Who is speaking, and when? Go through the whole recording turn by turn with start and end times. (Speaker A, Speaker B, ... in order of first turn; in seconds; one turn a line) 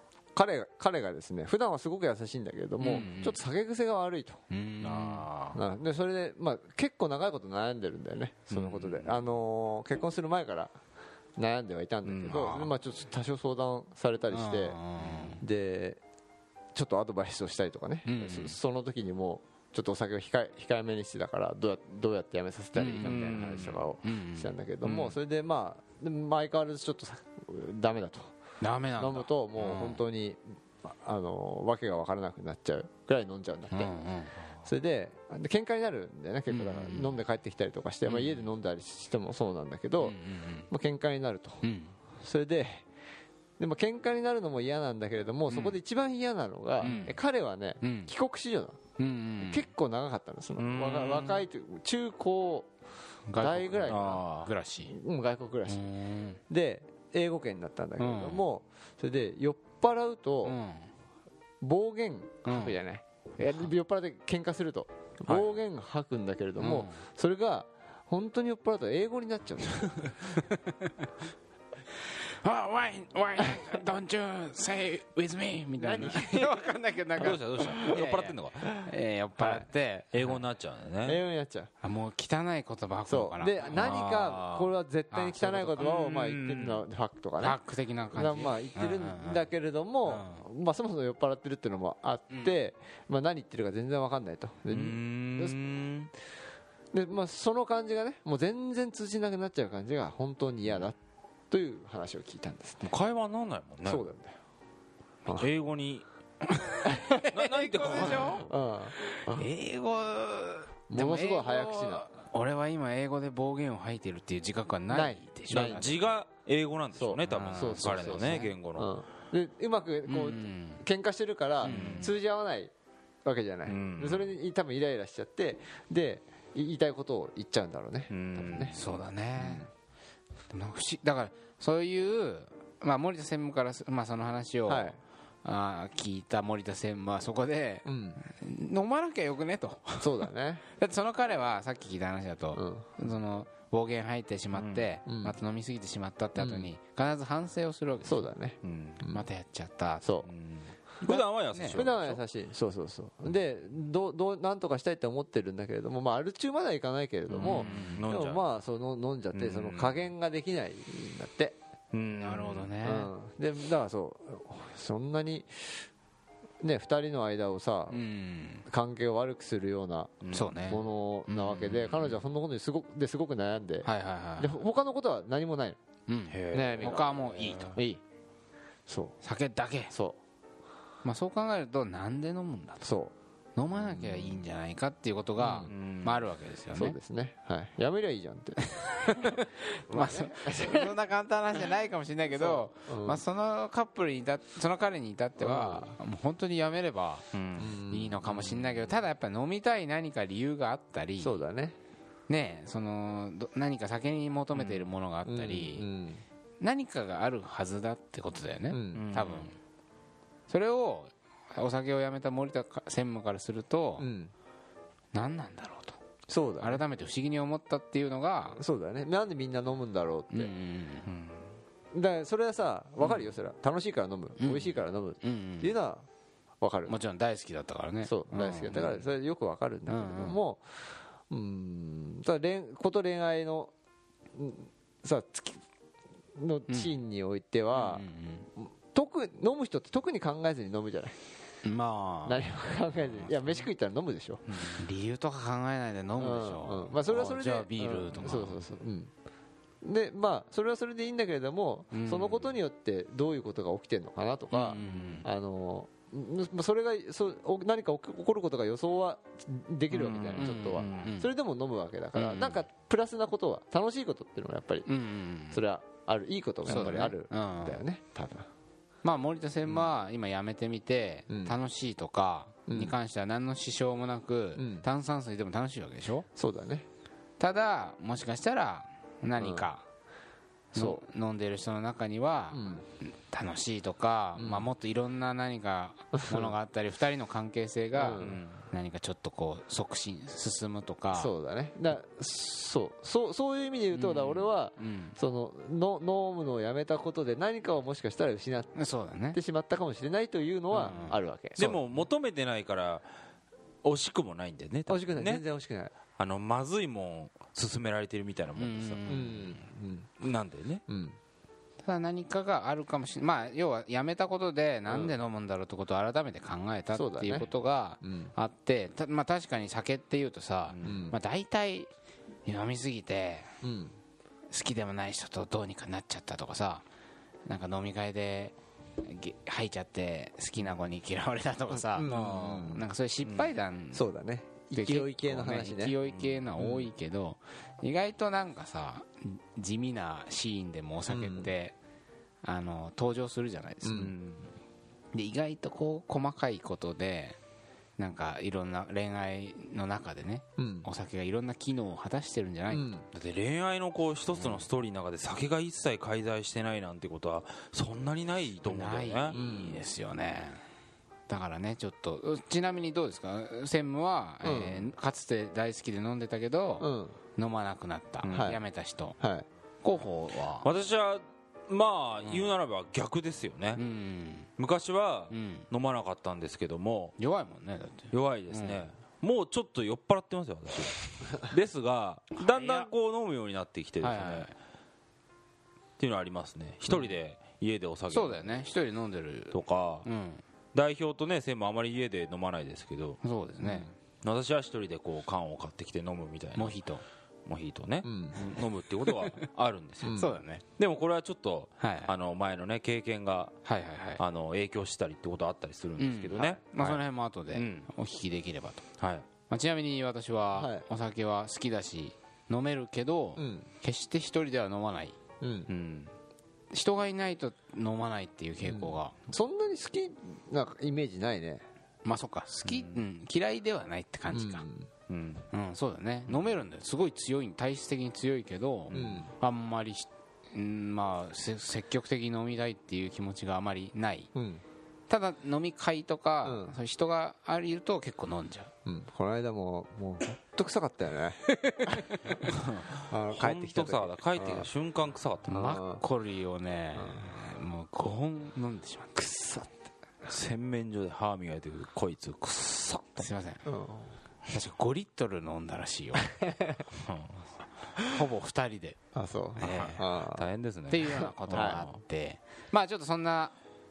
Speaker A: 0.3-4.4
Speaker B: 2.8-3.4
Speaker B: 4.5-5.3
Speaker C: 4.8-5.6
Speaker A: 5.5-10.7
Speaker C: 8.5-9.2
Speaker A: 11.4-14.8
Speaker C: 12.1-12.5
Speaker B: 12.4-12.7
Speaker B: 14.3-15.4
Speaker A: 15.4-16.0
Speaker A: 16.7-28.2
Speaker B: 18.0-18.6
Speaker B: 22.8-25.2
Speaker C: 23.0-23.5
Speaker B: 28.6-30.0
Speaker A: 29.0-33.9
Speaker B: 33.7-34.4
Speaker A: 34.6-40.2
Speaker B: 36.5-37.2
Speaker B: 38.1-38.5
Speaker B: 40.0-40.7
Speaker A: 40.7-41.6
Speaker B: 41.6-42.0
Speaker A: 42.2-42.8
Speaker A: 43.6-48.8
Speaker B: 45.5-45.8
Speaker B: 46.8-47.2
Speaker C: 46.8-47.1
Speaker B: 47.8-48.1
Speaker B: 49.0-49.7
Speaker A: 49.4-52.7
Speaker C: 50.5-51.5
Speaker B: 53.3-54.9
Speaker A: 53.4-54.2
Speaker C: 53.9-54.5
Speaker A: 54.8-55.9
Speaker B: 55.7-56.4
Speaker A: 56.5-60.6
Speaker B: 58.0-58.5
Speaker B: 60.4-60.9
Speaker A: 61.6-70.1
Speaker B: 62.4-62.8
Speaker B: 66.6-67.0
Speaker B: 70.5-70.9
Speaker B: 72.4-80.4
Speaker A: 75.8-76.6
Speaker C: 77.2-78.7
Speaker A: 77.7-78.0
Speaker A: 78.6-79.7
Speaker C: 80.1-81.2
Speaker A: 81.0-81.7
Speaker B: 81.8-83.8
Speaker A: 83.1-87.6
Speaker C: 83.7-84.7
Speaker B: 85.1-85.9
Speaker C: 85.8-86.8
Speaker B: 87.4-89.5
Speaker A: 88.1-95.6
Speaker B: 90.0-90.4
Speaker B: 92.3-92.5
Speaker C: 94.7-96.1
Speaker A: 96.9-101.0
Speaker A: 101.5-102.9
Speaker C: 102.8-104.1
Speaker A: 103.8-104.3
Speaker C: 105.3-106.0
Speaker B: 106.6-108.5
Speaker C: 107.2-108.5
Speaker A: 108.2-109.5
Speaker B: 109.0-116.1
Speaker A: 110.9-112.0
Speaker A: 114.9-115.9
Speaker C: 115.5-118.9
Speaker A: 116.9-122.7
Speaker B: 117.2-118.5
Speaker B: 120.0-120.8
Speaker B: 121.6-122.1
Speaker C: 121.6-122.1
Speaker A: 123.2-128.8
Speaker C: 123.6-124.3
Speaker C: 128.1-129.0
Speaker B: 128.7-129.7
Speaker A: 129.4-129.7
Speaker B: 130.5-148.3
Speaker A: 134.7-135.0
Speaker A: 137.8-138.2
Speaker A: 140.0-140.6
Speaker A: 142.6-142.9
Speaker C: 144.5-144.9
Speaker A: 145.1-145.4
Speaker A: 146.4-146.7
Speaker A: 148.0-149.2
Speaker C: 148.6-149.0
Speaker B: 149.1-150.1
Speaker A: 150.0-150.3
Speaker C: 150.2-152.0
Speaker B: 151.0-152.2
Speaker A: 151.7-161.6
Speaker C: 157.3-158.4
Speaker B: 157.3-158.0
Speaker C: 159.3-160.1
Speaker C: 161.9-162.7
Speaker B: 162.2-163.1
Speaker A: 162.8-165.8
Speaker A: 166.6-168.0
Speaker B: 167.9-168.6
Speaker A: 168.7-175.8
Speaker C: 170.2-170.6
Speaker B: 170.3-172.0
Speaker B: 173.8-174.6
Speaker B: 176.1-177.8
Speaker C: 176.3-177.7
Speaker A: 176.5-177.2
Speaker A: 177.7-178.0
Speaker A: 178.9-179.2
Speaker B: 179.2-179.9
Speaker A: 179.9-180.2
Speaker B: 181.0-182.8
Speaker A: 182.8-183.1
Speaker B: 183.6-187.0
Speaker C: 183.7-184.4
Speaker A: 185.4-185.7
Speaker C: 185.6-186.3
Speaker A: 186.7-188.8
Speaker B: 188.8-197.3
Speaker A: 189.9-190.9
Speaker A: 192.3-193.2
Speaker A: 195.4-195.9
Speaker C: 197.3-199.0
Speaker A: 197.6-198.2
Speaker B: 197.8-201.4
Speaker A: 201.2-201.8
Speaker B: 202.3-205.8
Speaker C: 204.5-204.9
Speaker A: 205.2-206.2
Speaker B: 206.6-209.5
Speaker A: 208.7-209.1
Speaker C: 208.9-209.5
Speaker B: 210.5-214.1
Speaker A: 214.0-214.3
Speaker B: 215.1-215.9
Speaker A: 216.3-216.8
Speaker B: 216.6-218.6
Speaker A: 218.6-220.5
Speaker B: 220.3-221.1
Speaker C: 221.1-221.5
Speaker A: 221.9-226.1
Speaker B: 223.0-223.3
Speaker B: 224.4-225.8
Speaker A: 226.6-226.9
Speaker B: 226.9-229.0
Speaker A: 228.0-233.7
Speaker B: 229.9-230.4
Speaker A: 234.3-235.6
Speaker A: 236.3-238.0
Speaker B: 236.7-236.9
Speaker B: 237.7-238.5
Speaker A: 238.6-241.2
Speaker B: 241.6-242.4
Speaker A: 242.2-244.6
Speaker B: 243.1-243.7
Speaker B: 244.5-248.6
Speaker A: 246.2-249.1
Speaker A: 249.8-264.9
Speaker B: 251.9-252.6
Speaker B: 254.5-255.3
Speaker C: 254.7-255.2
Speaker C: 259.9-261.1
Speaker B: 260.4-261.3
Speaker B: 262.1-262.6
Speaker B: 264.9-265.6
Speaker A: 265.5-268.5
Speaker B: 266.6-267.8
Speaker B: 269.0-276.2
Speaker A: 269.6-269.9
Speaker A: 271.3-271.6
Speaker A: 272.7-272.9
Speaker A: 274.6-274.9
Speaker A: 276.3-276.9
Speaker B: 277.4-279.8
Speaker A: 279.4-279.7
Speaker B: 280.7-291.3
Speaker A: 280.7-281.0
Speaker A: 282.5-282.8
Speaker A: 284.4-284.7
Speaker A: 286.1-286.5
Speaker A: 287.9-288.4
Speaker C: 288.2-288.6
Speaker A: 291.1-298.8
Speaker B: 293.9-295.2
Speaker B: 298.7-299.4
Speaker A: 299.3-301.8
Speaker B: 300.7-301.2
Speaker C: 301.6-303.1
Speaker C: 303.8-305.4
Speaker A: 304.9-305.9
Speaker C: 306.2-309.2
Speaker B: 308.6-309.6
Speaker A: 309.1-310.1
Speaker C: 310.2-310.8
Speaker A: 310.9-311.2
Speaker B: 311.8-321.9
Speaker A: 314.9-315.1
Speaker A: 316.9-317.5
Speaker A: 318.0-318.3
Speaker C: 320.7-321.0
Speaker A: 320.8-321.2
Speaker B: 322.4-323.5
Speaker A: 323.6-323.9
Speaker B: 324.5-326.8
Speaker B: 327.4-334.1
Speaker A: 331.7-332.8
Speaker C: 332.0-333.6
Speaker A: 333.9-336.0
Speaker B: 334.7-341.8
Speaker C: 336.1-336.5
Speaker A: 336.6-336.9
Speaker A: 341.1-341.5
Speaker B: 342.4-344.0
Speaker A: 343.8-344.1
Speaker C: 343.9-344.5
Speaker B: 345.1-347.4
Speaker B: 348.0-352.9
Speaker A: 350.6-350.9
Speaker A: 352.7-353.0
Speaker C: 353.1-359.4
Speaker B: 354.3-354.6
Speaker B: 358.6-360.6
Speaker A: 359.3-359.8
Speaker B: 361.3-369.2
Speaker A: 364.4-364.9
Speaker A: 366.8-367.2
Speaker C: 368.2-368.6
Speaker A: 368.3-368.6
Speaker A: 369.2-369.4
Speaker B: 369.8-370.7
Speaker C: 370.6-373.8
Speaker B: 372.2-372.5
Speaker B: 373.8-374.5
Speaker C: 374.6-377.1
Speaker B: 375.3-375.7
Speaker B: 377.2-378.9
Speaker C: 378.1-384.5
Speaker B: 382.4-382.9
Speaker B: 384.0-384.5
Speaker C: 386.0-388.5
Speaker B: 388.1-390.4
Speaker C: 389.5-390.1
Speaker C: 390.7-396.8
Speaker B: 393.2-393.9
Speaker B: 396.5-397.0
Speaker C: 397.5-403.5
Speaker A: 398.0-398.4
Speaker B: 398.5-399.4
Speaker A: 400.0-400.3
Speaker B: 400.1-400.6
Speaker B: 401.8-402.1
Speaker B: 403.6-404.2
Speaker C: 404.2-407.9
Speaker B: 406.0-408.8
Speaker C: 409.0-409.2
Speaker B: 409.5-415.1
Speaker A: 410.5-410.8
Speaker A: 413.4-413.7
Speaker A: 415.4-415.7
Speaker C: 415.7-416.1
Speaker B: 416.7-419.1
Speaker A: 418.6-421.6
Speaker B: 422.0-424.6
Speaker C: 422.6-423.0
Speaker A: 424.3-424.9
Speaker C: 425.1-425.4
Speaker B: 425.5-434.3
Speaker C: 426.3-426.6
Speaker C: 428.9-429.2
Speaker A: 428.9-429.3
Speaker A: 434.3-434.6
Speaker B: 435.1-438.7
Speaker A: 436.4-436.8
Speaker A: 438.9-442.0
Speaker B: 441.4-442.5
Speaker C: 442.4-445.7
Speaker A: 443.0-444.7
Speaker A: 445.5-446.0
Speaker B: 445.5-449.1
Speaker A: 446.9-447.4
Speaker A: 449.1-449.7
Speaker C: 450.2-453.2
Speaker B: 453.2-453.6
Speaker A: 453.6-454.1
Speaker B: 454.5-456.4
Speaker C: 457.0-457.5
Speaker B: 458.1-459.0
Speaker A: 459.1-460.4
Speaker B: 459.6-460.0
Speaker C: 459.6-462.0
Speaker B: 460.9-463.5
Speaker A: 461.5-461.8